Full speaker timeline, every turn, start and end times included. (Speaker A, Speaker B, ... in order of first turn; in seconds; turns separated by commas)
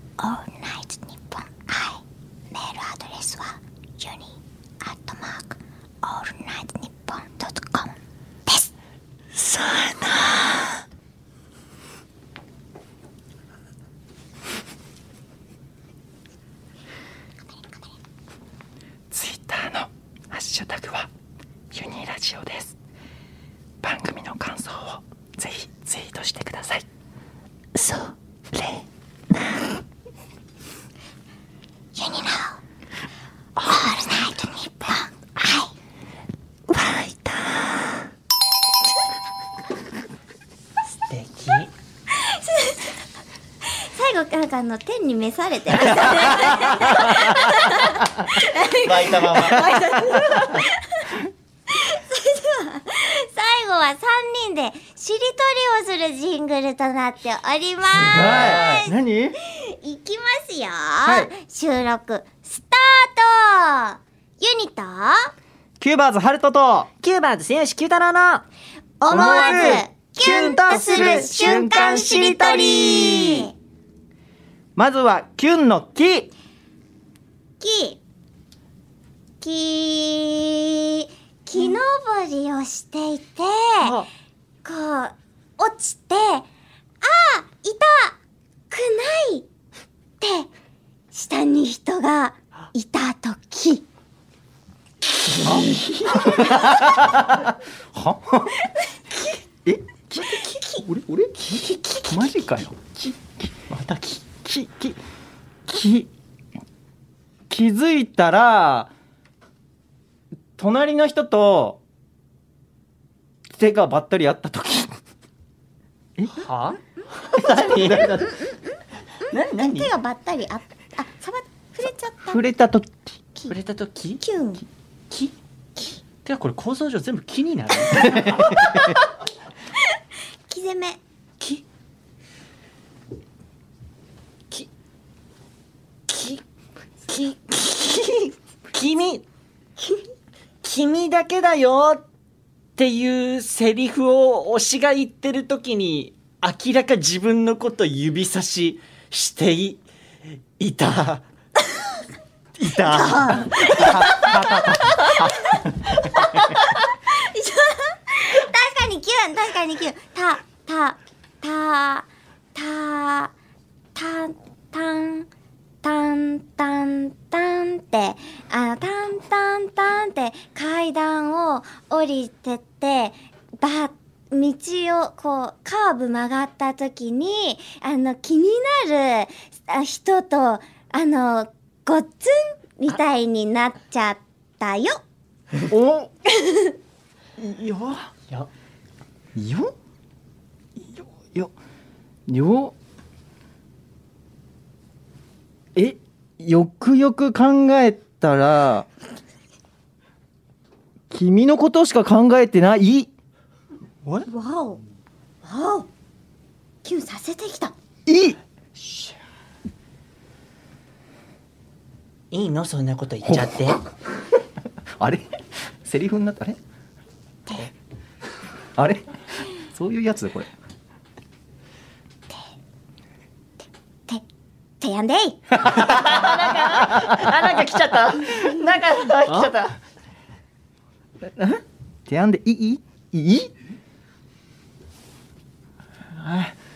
Speaker A: 0.2-8.0, Speaker A: 8.5-8.7, Speaker B: 9.5-9.9, Speaker C: 19.1-21.1, Speaker C: 21.7-22.8, Speaker C: 23.8-26.9, Speaker B: 27.8-28.1, Speaker A: 31.9-32.6, Speaker A: 33.6-35.7, Speaker B: 36.7-37.6, Speaker B: 41.0-41.7, Speaker A: 42.2-42.9, Speaker A: 43.7-51.2, Speaker B: 48.4-50.4, Speaker A: 51.7-65.3, Speaker B: 58.0-58.9, Speaker C: 58.1-59.4, Speaker C: 61.0-61.3, Speaker C: 65.8-66.9, Speaker B: 67.0-68.5, Speaker A: 69.0-73.5, Speaker C: 69.1-73.5, Speaker B: 70.3-71.7, Speaker C: 74.8-76.3, Speaker A: 77.6-78.0, Speaker A: 79.4-84.0, Speaker B: 83.8-84.1, Speaker A: 84.6-86.5, Speaker A: 87.0-88.2, Speaker A: 88.7-89.5, Speaker A: 90.2-90.5, Speaker A: 91.1-93.8, Speaker B: 95.3-96.8, Speaker A: 96.3-96.8, Speaker C: 96.3-98.6, Speaker A: 98.8-99.4, Speaker C: 99.7-100.4, Speaker A: 100.3-100.9, Speaker B: 100.4-102.7, Speaker C: 102.1-103.7, Speaker B: 103.7-104.3, Speaker C: 104.5-105.0, Speaker C: 105.7-106.1, Speaker C: 107.5-108.9, Speaker C: 110.6-111.8, Speaker C: 113.5-115.0, Speaker B: 116.3-118.3, Speaker C: 117.4-118.3, Speaker A: 118.2-122.4, Speaker B: 119.3-119.9, Speaker C: 122.3-123.2, Speaker B: 123.5-124.2, Speaker A: 124.2-124.7, Speaker B: 125.1-128.9, Speaker A: 130.5-131.0, Speaker B: 136.1-136.4, Speaker B: 137.1-139.2, Speaker B: 140.6-142.0, Speaker B: 142.8-149.8, Speaker B: 150.6-151.2, Speaker B: 152.6-154.4, Speaker A: 152.8-154.4, Speaker C: 153.8-154.8, Speaker A: 155.0-155.6, Speaker A: 156.2-163.3, Speaker A: 163.9-165.3, Speaker A: 165.8-185.0, Speaker C: 185.7-186.1, Speaker C: 187.4-188.1, Speaker C: 189.4-189.7, Speaker C: 190.9-191.5, Speaker C: 192.3-192.8, Speaker C: 195.8-198.9, Speaker C: 201.1-203.1, Speaker A: 204.3-204.8, Speaker A: 205.4-205.9, Speaker A: 206.8-207.7, Speaker C: 208.1-208.4, Speaker B: 212.3-213.8, Speaker C: 213.2-213.6, Speaker C: 215.0-216.6, Speaker C: 218.8-220.5, Speaker A: 224.8-225.6, Speaker B: 225.7-229.8, Speaker C: 231.2-233.5, Speaker C: 236.1-236.6